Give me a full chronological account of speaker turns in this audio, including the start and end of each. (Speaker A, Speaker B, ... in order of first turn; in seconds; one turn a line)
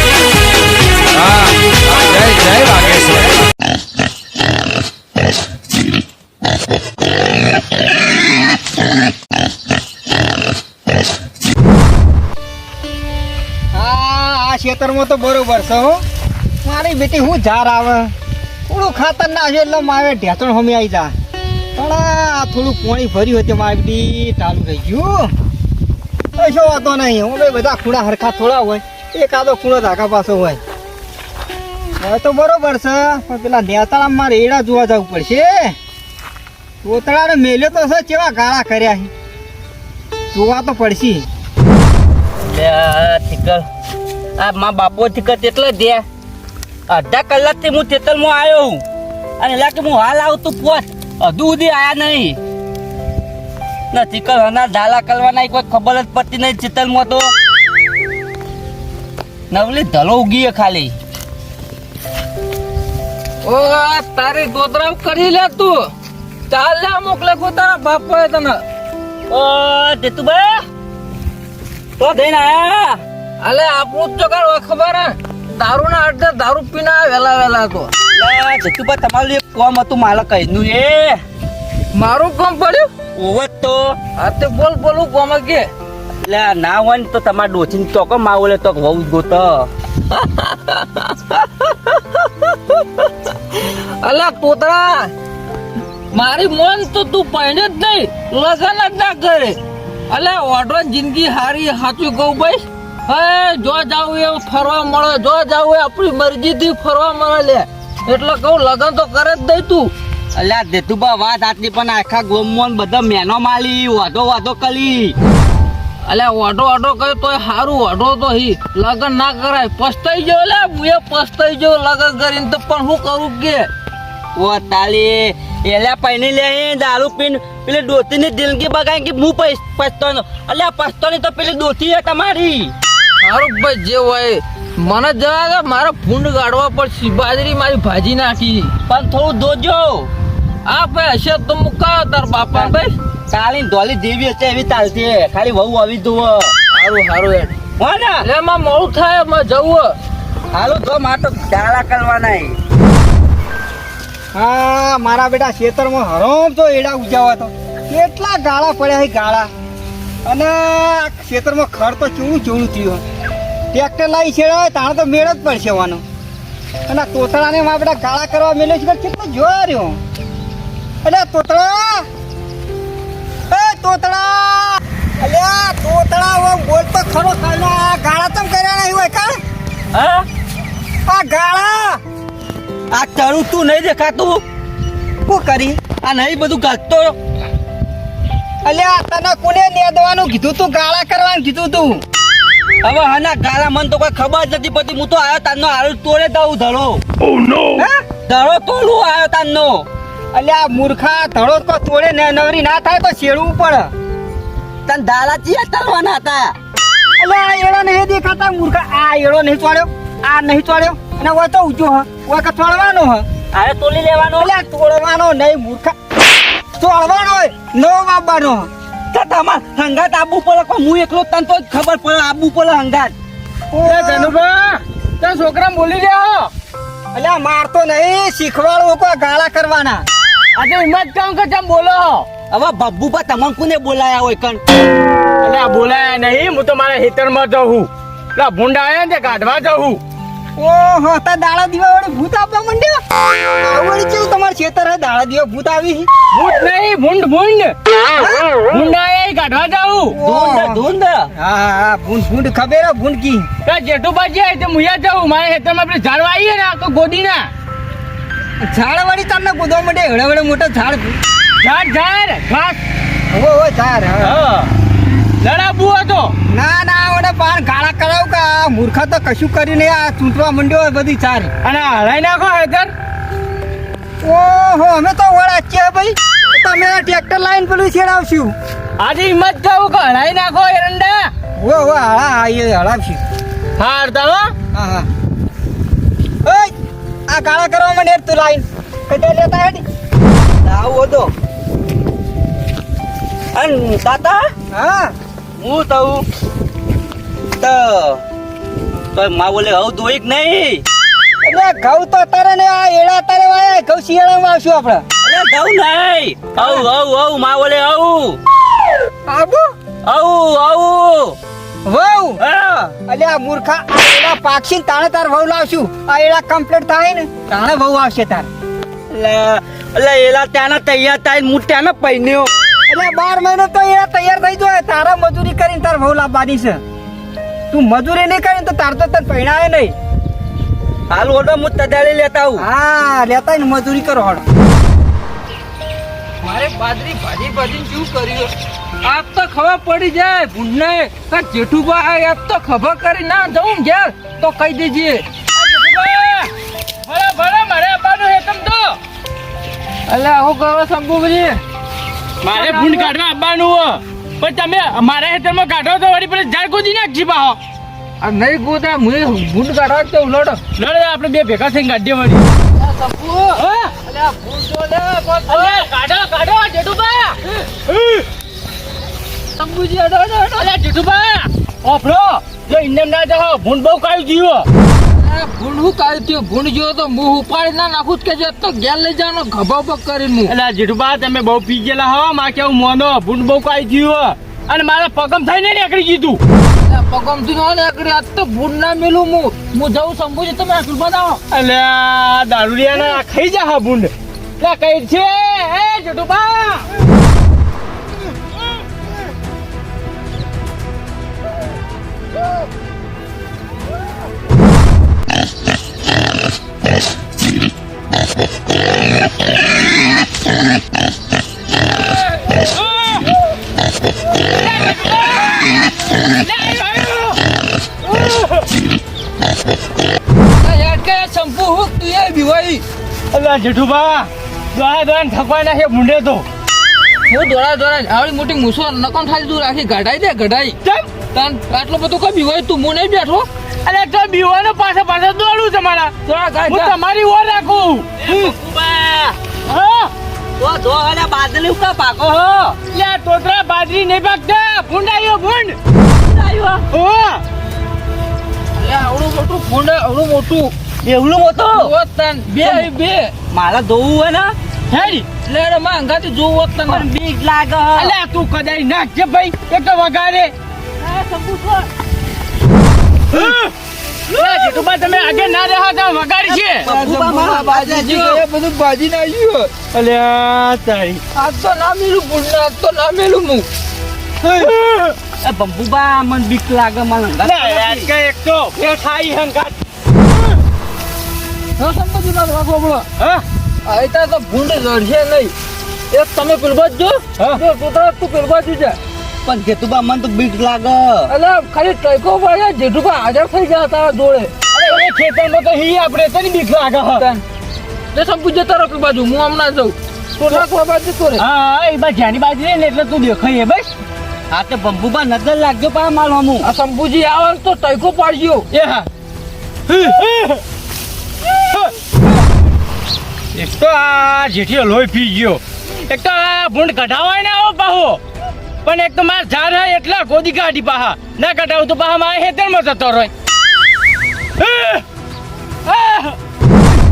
Speaker A: 2.0-3.2
Speaker B: 13.7-16.0
Speaker B: 16.6-18.1
Speaker B: 18.7-21.1
Speaker B: 21.8-25.3
Speaker B: 26.4-30.6
Speaker B: 32.0-35.7
Speaker B: 36.8-39.1
Speaker B: 40.3-41.2
Speaker C: 42.4-43.6
Speaker C: 44.4-46.0
Speaker C: 46.9-48.8
Speaker C: 49.4-52.4
Speaker C: 53.9-57.3
Speaker C: 59.5-60.9
Speaker A: 63.4-65.9
Speaker A: 66.5-68.6
Speaker C: 69.3-70.6
Speaker C: 72.0-73.0
Speaker A: 73.4-77.9
Speaker C: 78.1-81.2
Speaker A: 81.9-82.9
Speaker C: 83.2-84.0
Speaker A: 84.2-85.7
Speaker C: 86.2-89.7
Speaker A: 90.1-95.1
Speaker A: 96.1-99.6
Speaker A: 100.1-109.9
Speaker C: 110.3-115.1
Speaker A: 116.0-123.7
Speaker C: 124.3-132.7
Speaker A: 133.2-138.7
Speaker C: 138.9-140.1
Speaker A: 140.6-142.9
Speaker C: 143.3-146.5
Speaker A: 146.7-147.5
Speaker C: 147.8-148.2
Speaker A: 148.2-149.9
Speaker C: 150.5-152.6
Speaker B: 154.3-159.5
Speaker B: 160.2-163.0
Speaker B: 163.7-166.0
Speaker B: 166.9-170.0
Speaker B: 171.0-172.1
Speaker B: 173.5-179.4
Speaker C: 179.9-180.2
Speaker B: 181.1-182.0
Speaker C: 182.9-184.4
Speaker B: 185.2-185.8
Speaker C: 186.0-187.2
Speaker B: 188.6-192.0
Speaker C: 192.8-197.0
Speaker B: 197.7-198.0
Speaker C: 198.3-199.8
Speaker B: 200.3-203.9
Speaker C: 204.9-206.5
Speaker B: 207.2-213.2
Speaker C: 213.5-214.5
Speaker B: 214.4-215.9
Speaker B: 216.8-218.7
Speaker C: 219.1-223.1
Speaker B: 223.7-224.3
Speaker D: 223.8-226.5
Speaker B: 227.1-230.0
Speaker D: 230.6-232.3
Speaker C: 232.5-234.6
Speaker D: 235.4-240.0
Speaker B: 240.6-246.1
Speaker D: 246.3-247.7
Speaker B: 248.2-248.5
Speaker D: 248.7-250.2
Speaker B: 250.2-250.8
Speaker C: 250.2-251.3
Speaker B: 251.3-253.5
Speaker D: 253.7-257.5
Speaker B: 258.6-261.2
Speaker D: 261.6-262.8
Speaker B: 263.3-264.4
Speaker D: 264.2-264.7
Speaker D: 265.4-266.3
Speaker B: 266.5-271.5
Speaker D: 271.6-272.9
Speaker B: 274.2-278.5
Speaker D: 279.0-281.3
Speaker B: 281.6-283.2
Speaker D: 283.8-284.5
Speaker B: 284.7-285.1
Speaker B: 286.4-286.7
Speaker B: 287.3-289.8
Speaker C: 290.6-291.3
Speaker C: 293.5-294.5
Speaker B: 294.7-295.1
Speaker C: 295.6-296.2
Speaker C: 297.6-298.2
Speaker C: 299.1-300.8
Speaker B: 301.4-305.0
Speaker C: 305.2-308.4
Speaker B: 309.3-309.7
Speaker C: 310.0-311.4
Speaker B: 311.9-312.4
Speaker C: 312.4-312.9
Speaker B: 313.0-318.5
Speaker C: 319.1-322.5
Speaker B: 322.9-326.8
Speaker B: 327.7-329.9
Speaker C: 331.1-332.6
Speaker B: 332.6-334.4
Speaker A: 336.4-345.2
Speaker D: 345.5-346.5
Speaker D: 347.0-349.0
Speaker A: 350.1-351.6
Speaker D: 352.4-357.6
Speaker A: 352.5-353.1
Speaker A: 358.2-360.6
Speaker D: 360.8-362.4
Speaker A: 362.8-365.8
Speaker D: 363.6-363.9
Speaker D: 365.5-368.3
Speaker A: 369.6-370.7
Speaker D: 370.6-374.7
Speaker A: 375.0-380.5
Speaker D: 380.5-386.4
Speaker A: 386.8-391.4
Speaker D: 391.5-396.9
Speaker D: 412.9-413.2
Speaker D: 414.6-417.4
Speaker D: 418.0-418.7
Speaker A: 420.5-422.8
Speaker D: 423.3-426.4
Speaker A: 427.3-430.8
Speaker A: 431.3-433.5
Speaker D: 433.8-436.1
Speaker A: 436.2-436.9
Speaker D: 436.7-438.6
Speaker C: 438.2-439.4
Speaker D: 439.7-440.1
Speaker C: 440.6-442.8
Speaker D: 442.9-445.8
Speaker C: 446.1-446.8
Speaker D: 446.9-447.4
Speaker A: 448.8-450.7
Speaker C: 451.0-451.9
Speaker A: 451.7-453.3
Speaker C: 452.6-452.9
Speaker C: 453.5-454.5
Speaker D: 454.9-455.2
Speaker A: 455.4-457.1
Speaker C: 456.8-458.1
Speaker D: 457.9-460.5
Speaker A: 461.0-461.9
Speaker D: 463.3-463.7
Speaker D: 464.3-466.9
Speaker C: 466.5-468.4
Speaker A: 466.9-469.7
Speaker D: 469.9-471.2
Speaker A: 471.3-473.6
Speaker D: 474.4-475.1
Speaker C: 475.4-478.1
Speaker D: 477.4-479.8
Speaker A: 481.8-483.1
Speaker A: 483.8-485.5
Speaker A: 486.1-489.0
Speaker C: 489.4-491.3
Speaker A: 491.3-494.5
Speaker D: 494.7-497.2
Speaker A: 498.1-501.4
Speaker D: 500.4-500.6
Speaker D: 501.4-503.9
Speaker C: 504.5-506.6
Speaker A: 506.6-508.6
Speaker D: 508.7-509.1
Speaker D: 509.9-510.6
Speaker D: 511.6-511.9
Speaker D: 513.5-518.2
Speaker D: 518.8-523.3
Speaker D: 524.6-525.0
Speaker D: 525.9-526.4